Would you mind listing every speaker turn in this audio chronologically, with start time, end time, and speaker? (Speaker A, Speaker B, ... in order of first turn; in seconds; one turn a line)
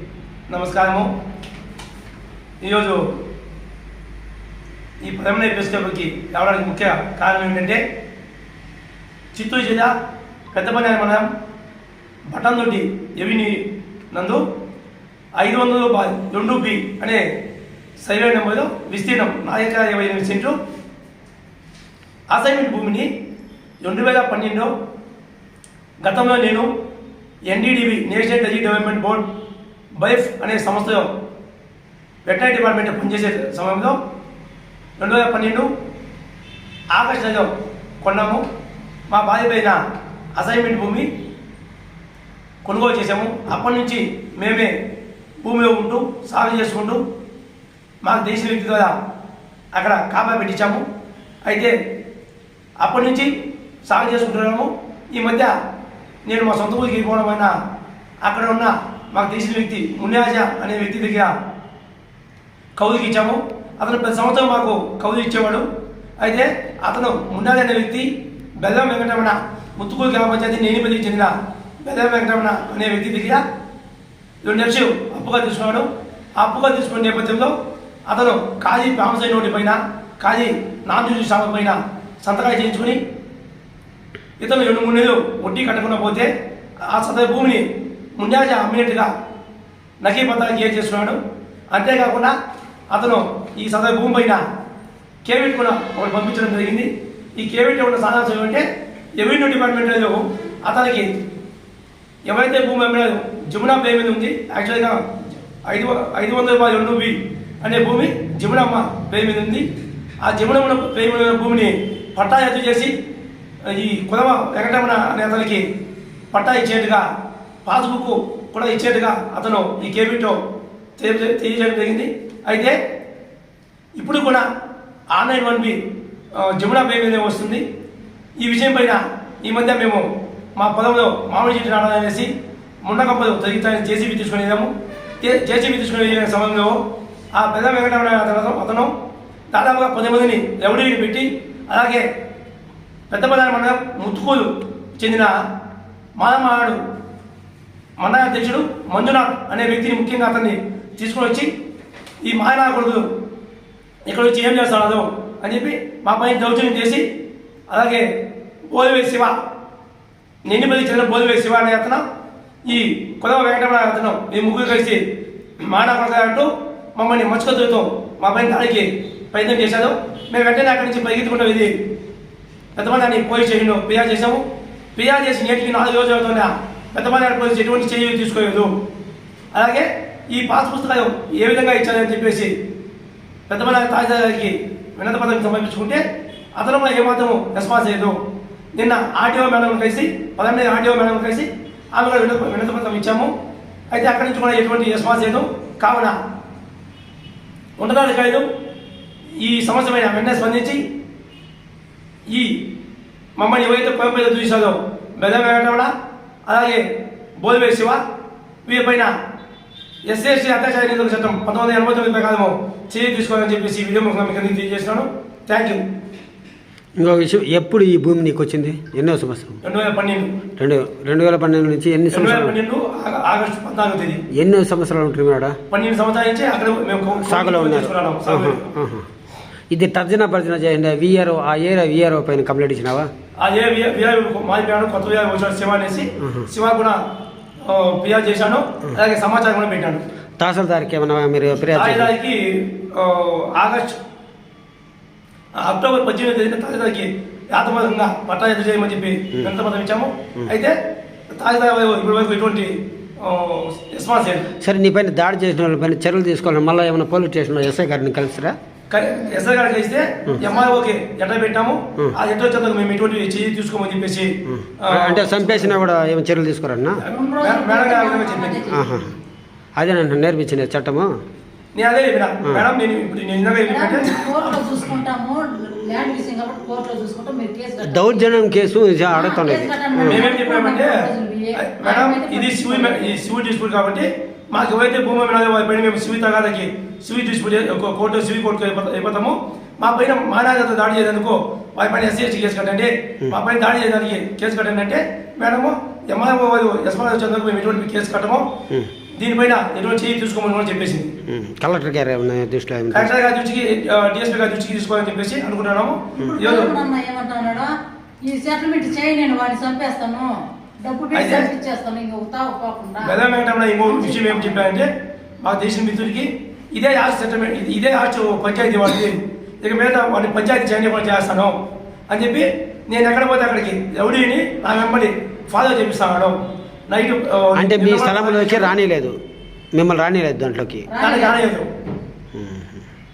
Speaker A: 0.5-1.1
Speaker A: 2.6-3.0
Speaker A: 5.0-7.8
Speaker A: 9.3-9.9
Speaker A: 10.5-11.3
Speaker A: 12.3-14.4
Speaker A: 15.4-17.2
Speaker A: 18.0-20.6
Speaker A: 22.3-23.1
Speaker A: 23.8-24.7
Speaker A: 26.0-26.7
Speaker A: 27.5-29.3
Speaker A: 30.0-31.1
Speaker A: 32.2-34.0
Speaker A: 35.0-35.7
Speaker A: 36.9-37.5
Speaker A: 38.0-38.4
Speaker A: 39.1-39.8
Speaker A: 40.4-41.1
Speaker A: 42.6-44.7
Speaker A: 45.4-47.0
Speaker A: 48.0-48.9
Speaker A: 49.7-50.8
Speaker A: 51.5-51.7
Speaker A: 52.8-53.3
Speaker A: 53.9-55.5
Speaker A: 56.2-57.5
Speaker A: 58.2-61.3
Speaker A: 62.8-65.6
Speaker A: 66.2-73.4
Speaker A: 74.4-77.5
Speaker A: 78.1-83.0
Speaker A: 84.4-86.3
Speaker A: 86.8-87.7
Speaker A: 88.2-89.1
Speaker A: 90.0-91.2
Speaker A: 91.7-92.3
Speaker A: 92.9-94.4
Speaker A: 95.2-98.7
Speaker A: 99.2-101.1
Speaker A: 102.2-109.7
Speaker A: 110.2-112.9
Speaker A: 113.7-115.6
Speaker A: 116.3-117.0
Speaker A: 117.6-120.4
Speaker A: 121.0-122.8
Speaker A: 124.0-124.5
Speaker A: 125.1-125.8
Speaker A: 126.4-127.6
Speaker A: 128.4-130.0
Speaker A: 130.6-132.3
Speaker A: 132.8-136.8
Speaker A: 137.3-138.9
Speaker A: 139.5-142.0
Speaker A: 143.1-145.3
Speaker A: 146.2-146.8
Speaker A: 148.0-151.5
Speaker A: 152.2-153.0
Speaker A: 154.1-157.0
Speaker A: 157.7-158.1
Speaker A: 158.7-159.3
Speaker A: 160.4-162.0
Speaker A: 162.7-165.0
Speaker A: 165.6-171.7
Speaker A: 172.8-174.4
Speaker A: 174.9-178.7
Speaker A: 179.5-182.5
Speaker A: 183.5-186.0
Speaker A: 186.6-188.2
Speaker A: 188.8-193.3
Speaker A: 193.9-196.2
Speaker A: 197.8-198.4
Speaker A: 199.4-200.8
Speaker A: 202.3-202.6
Speaker A: 203.4-205.9
Speaker A: 206.5-206.8
Speaker A: 207.4-208.0
Speaker A: 208.7-209.1
Speaker A: 210.1-215.8
Speaker B: 217.0-219.6
Speaker A: 219.6-220.3
Speaker B: 220.6-222.6
Speaker A: 222.1-224.2
Speaker B: 224.3-225.5
Speaker A: 225.7-228.6
Speaker B: 227.3-229.1
Speaker B: 229.7-233.1
Speaker A: 233.4-237.0
Speaker B: 236.2-236.5
Speaker A: 237.6-240.0
Speaker B: 240.4-242.1
Speaker A: 241.7-244.0
Speaker A: 245.6-250.7
Speaker A: 251.3-254.5
Speaker B: 254.6-258.6
Speaker A: 258.9-265.8
Speaker C: 260.4-260.7
Speaker B: 264.5-267.0
Speaker C: 267.1-268.9
Speaker A: 267.4-268.6
Speaker B: 268.7-269.1
Speaker B: 269.8-271.1
Speaker A: 271.7-274.2
Speaker C: 273.6-278.3
Speaker B: 277.8-280.2
Speaker C: 279.1-283.1
Speaker A: 280.1-281.0
Speaker A: 281.6-298.5
Speaker A: 299.2-301.1
Speaker B: 301.3-303.1
Speaker A: 302.9-306.7
Speaker C: 306.2-307.7
Speaker C: 308.2-313.2
Speaker A: 311.1-311.5
Speaker A: 313.0-314.9
Speaker C: 313.9-314.7
Speaker A: 315.4-321.5
Speaker A: 322.1-326.4
Speaker A: 326.9-328.7
Speaker B: 327.6-329.1
Speaker B: 329.7-330.9
Speaker C: 330.9-331.4
Speaker A: 331.0-331.6
Speaker B: 332.3-332.8